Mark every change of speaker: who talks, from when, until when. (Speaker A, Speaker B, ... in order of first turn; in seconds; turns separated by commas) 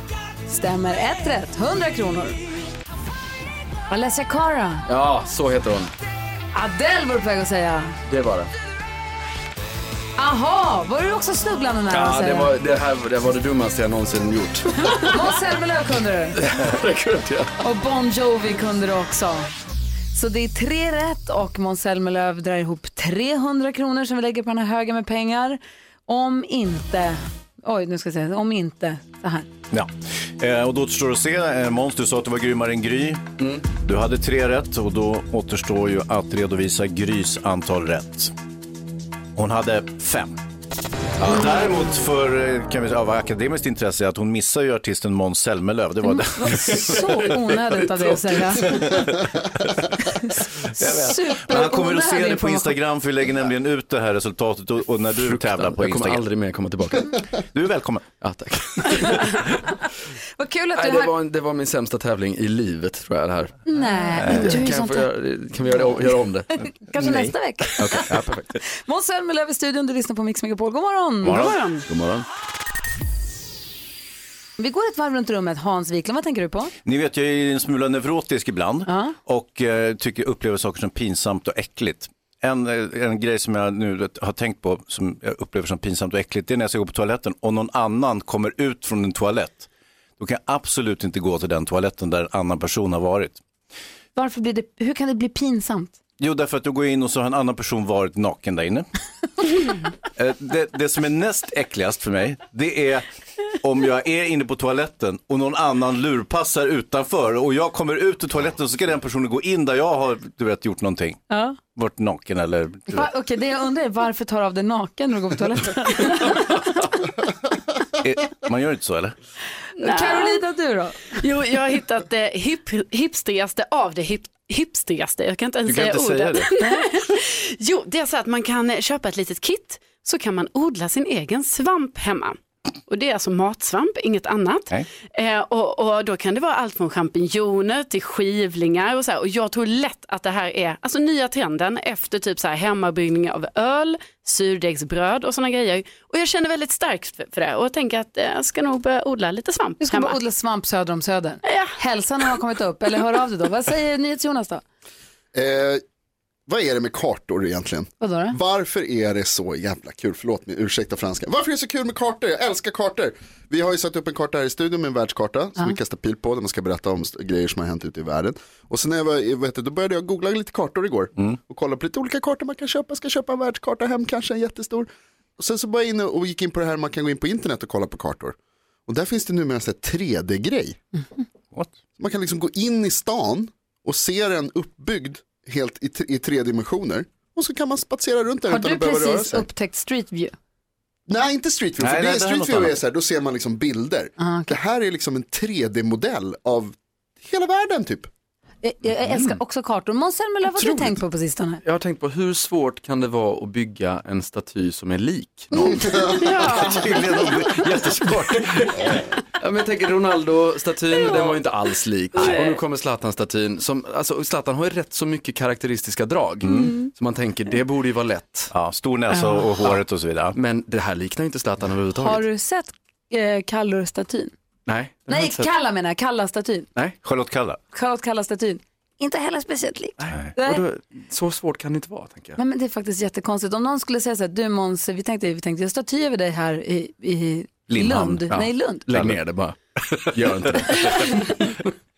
Speaker A: 0.5-2.4, Speaker A: 3.9-4.9, Speaker B: 4.9-5.9, Speaker A: 6.5-8.0, Speaker B: 8.1-8.5, Speaker A: 10.2-12.5, Speaker B: 11.9-15.2, Speaker A: 14.9-16.4, Speaker B: 16.4-17.5, Speaker A: 17.6-19.5, Speaker A: 20.1-29.5, Speaker C: 29.7-38.3, Speaker B: 33.4-33.6, Speaker C: 39.4-40.4, Speaker C: 41.2-46.7, Speaker A: 46.1-49.1, Speaker B: 46.5-49.0, Speaker A: 50.0-52.8, Speaker C: 50.8-56.2, Speaker B: 55.2-57.2, Speaker C: 57.5-58.1, Speaker B: 58.2-59.8, Speaker A: 60.4-61.1, Speaker B: 60.7-63.6, Speaker A: 63.6-65.1, Speaker C: 64.2-64.5, Speaker B: 64.2-68.6, Speaker A: 66.6-68.1, Speaker A: 68.7-71.4, Speaker D: 71.3-71.8, Speaker B: 71.3-72.2, Speaker A: 74.6-76.7, Speaker C: 76.8-89.7, Speaker A: 78.9-79.1, Speaker C: 90.2-93.4, Speaker A: 94.2-96.0, Speaker C: 96.2-98.9, Speaker C: 100.2-103.0, Speaker C: 103.6-111.2, Speaker A: 111.3-111.6, Speaker C: 111.7-113.1, Speaker A: 112.9-116.8, Speaker C: 118.0-119.1, Speaker D: 119.8-120.4, Speaker A: 119.8-121.1, Speaker D: 121.2-150.2, Speaker C: 125.7-126.5, Speaker A: 126.6-126.8, Speaker A: 149.8-154.6, Speaker D: 151.4-151.7, Speaker E: 155.3-155.8, Speaker E: 156.5-178.3, Speaker A: 158.0-158.3, Speaker E: 178.9-180.8, Speaker E: 182.0-189.5, Speaker A: 188.5-190.3, Speaker E: 191.1-198.1, Speaker C: 191.8-192.8, Speaker A: 194.2-194.6, Speaker A: 198.6-201.6, Speaker B: 201.6-206.1, Speaker D: 206.1-206.8, Speaker C: 206.2-208.9, Speaker B: 208.3-218.5, Speaker D: 212.2-212.6, Speaker C: 216.4-216.7, Speaker A: 216.6-216.9, Speaker C: 218.5-220.4, Speaker A: 219.2-219.4, Speaker B: 220.3-222.2, Speaker A: 222.0-224.3, Speaker B: 224.7-225.5, Speaker A: 225.1-226.7, Speaker C: 227.0-227.6, Speaker A: 227.7-230.6, Speaker B: 230.0-232.4, Speaker A: 232.4-238.9, Speaker B: 237.7-241.7, Speaker C: 238.9-239.2, Speaker A: 240.7-241.5